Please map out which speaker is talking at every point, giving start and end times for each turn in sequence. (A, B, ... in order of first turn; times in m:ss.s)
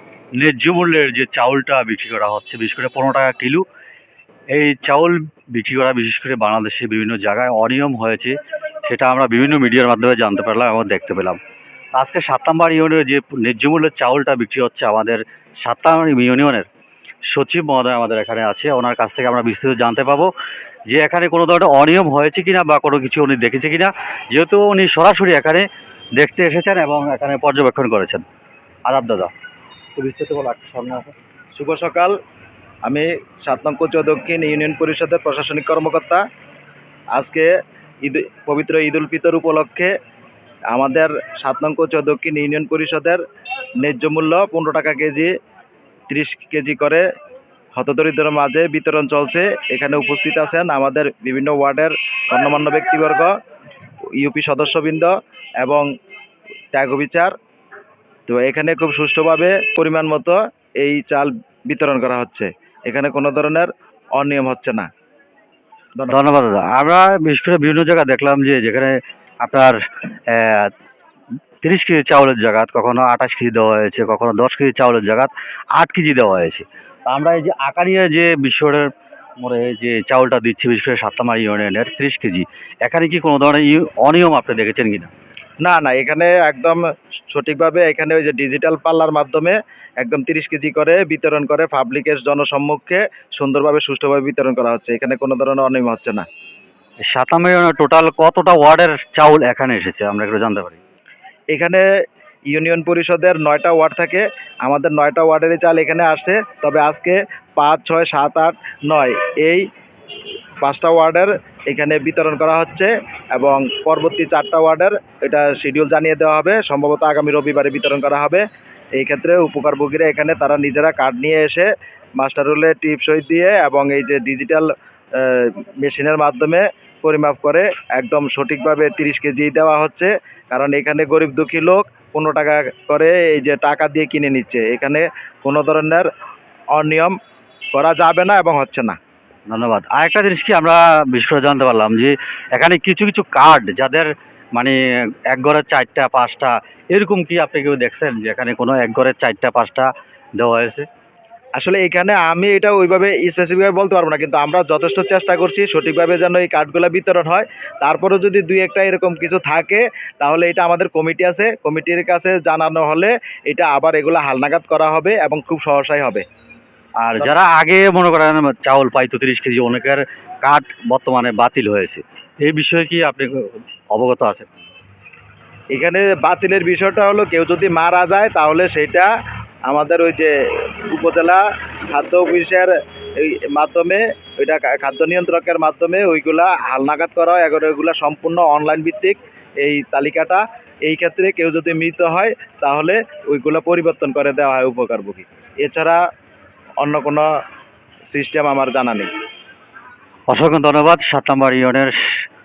0:00.4-0:03.6 A
0:04.5-0:11.4 A
0:12.0-0:16.7 A
0:17.3-0:20.3 A
0:20.9-0:25.7 A
0:26.2-0:28.2 A
0:28.9-0:29.3 A
0:30.0-0:31.1 A
0:31.6-0:32.1 B
0:32.9-0:36.2 B
0:37.2-0:37.5 B
0:38.0-0:39.9 B
0:40.7-0:43.2 B
0:43.8-0:45.3 B
0:46.1-0:47.0 B
0:47.8-0:53.3 B
0:54.2-0:55.9 B
0:56.7-0:57.3 B
0:58.3-1:04.9 B
1:06.1-1:09.8 A
1:10.3-1:10.7 A
1:11.6-1:18.9 A
1:19.4-1:25.1 A
1:25.6-1:26.8 B
1:27.3-1:36.2 B
1:37.1-1:40.8 A
1:41.5-1:41.8 B
1:42.5-1:49.6 B
1:50.6-1:58.4 B
1:59.0-2:01.7 B
2:02.2-2:16.1 B
2:16.7-2:17.1 B
2:17.7-2:19.0 B
2:19.5-2:24.8 A
2:25.3-2:30.9 A
2:31.6-2:46.2 B
2:47.0-2:54.5 A
2:55.7-2:59.1 B
2:59.7-3:16.0 B
3:16.8-3:17.2 B
3:18.1-3:19.1 B
3:20.3-3:21.9 A